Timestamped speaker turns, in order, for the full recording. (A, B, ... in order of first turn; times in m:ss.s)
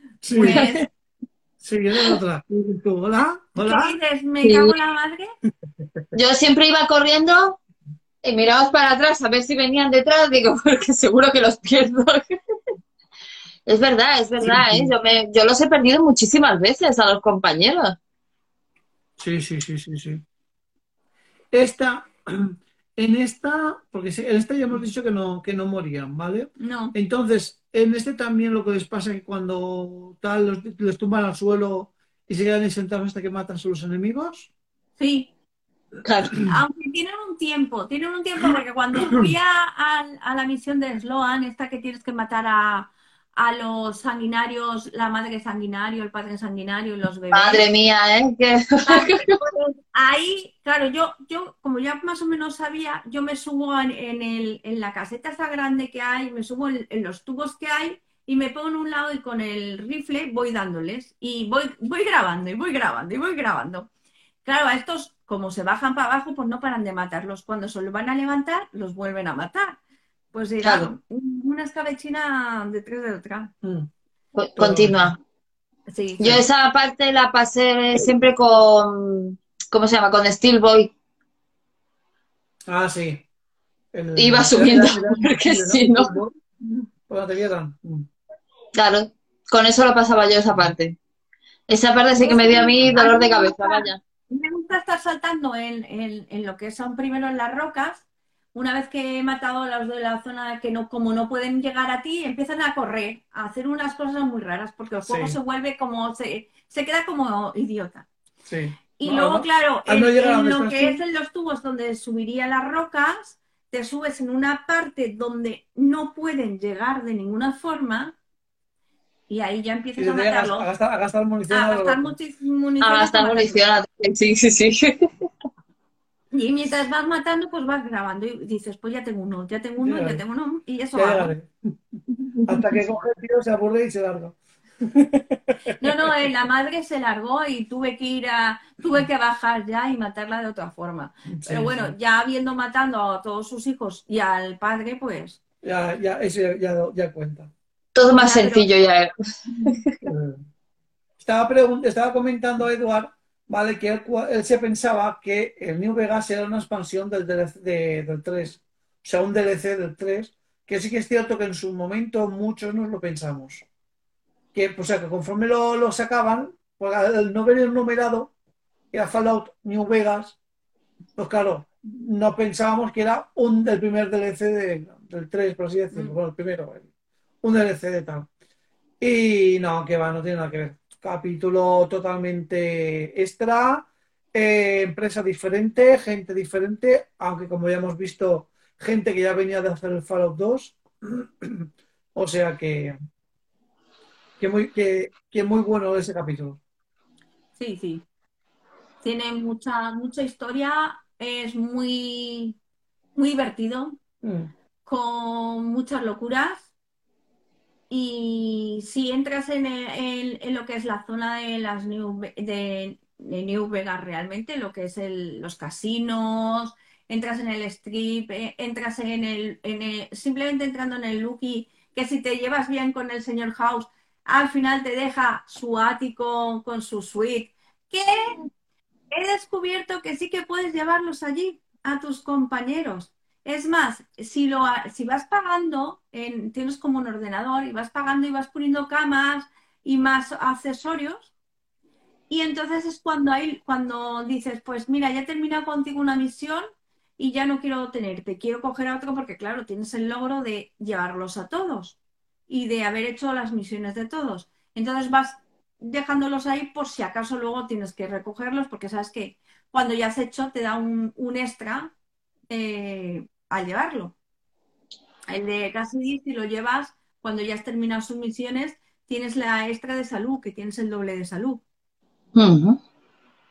0:00.2-0:00.9 A
0:00.3-0:00.9 B
0:01.6-0:04.0 A
0:03.6-0:05.3 B
0:04.4-0:04.7 C
0:06.1-0:07.6 C
0:08.2-0:12.4 C
0:13.7-0:18.0 C
0:14.4-0:14.9 A
0:19.2-0:20.2 A
0:21.5-0:34.5 A
0:26.6-0:27.0 B
0:35.0-0:35.3 B
0:36.0-0:36.4 C
0:36.4-0:47.6 B
0:47.3-0:49.4 C
0:48.9-1:03.9 B
1:04.4-1:09.8 B
1:10.3-1:13.5 B
1:10.6-1:10.9 C
1:13.6-1:13.9 A
1:14.4-1:15.2 C
1:14.6-1:15.2 A
1:15.9-1:16.4 B
1:16.2-1:20.9 C
1:22.7-1:23.3 A
1:23.9-1:28.1 A
1:24.2-1:26.1 C
1:28.7-1:31.0 C
1:31.7-1:34.0 C
1:32.2-1:48.1 B
1:45.1-1:45.4 A
1:48.5-1:51.0 A
1:49.0-1:58.2 B
1:59.3-2:00.7 B
2:00.0-2:02.2 A
2:01.5-2:03.6 B
2:02.8-2:05.1 C
2:06.3-2:11.3 B
2:09.8-2:10.2 A
2:11.0-2:11.5 A
2:12.5-2:15.9 A
2:15.8-2:25.4 B
2:21.3-2:21.9 A
2:25.6-2:27.5 A
2:28.0-2:29.1 C
2:28.2-2:28.7 B
2:29.6-2:30.0 C
2:30.1-2:30.4 A
2:31.2-2:43.6 A
2:44.5-2:48.3 A
2:48.9-2:50.4 A
2:51.2-2:56.9 A
2:57.4-2:58.3 A
2:59.0-3:13.0 A
3:14.4-3:16.6 A
3:17.6-3:18.0 B
3:19.0-3:22.6 B
3:23.2-3:24.0 B
3:24.2-3:24.5 A
3:24.8-3:26.7 B
3:27.9-3:48.4 B
3:49.1-4:01.3 B
4:02.3-4:06.7 B
4:07.2-4:12.0 B
4:12.5-4:21.9 B
4:22.5-4:24.2 B
4:25.3-4:31.6 B
4:32.4-4:32.8 C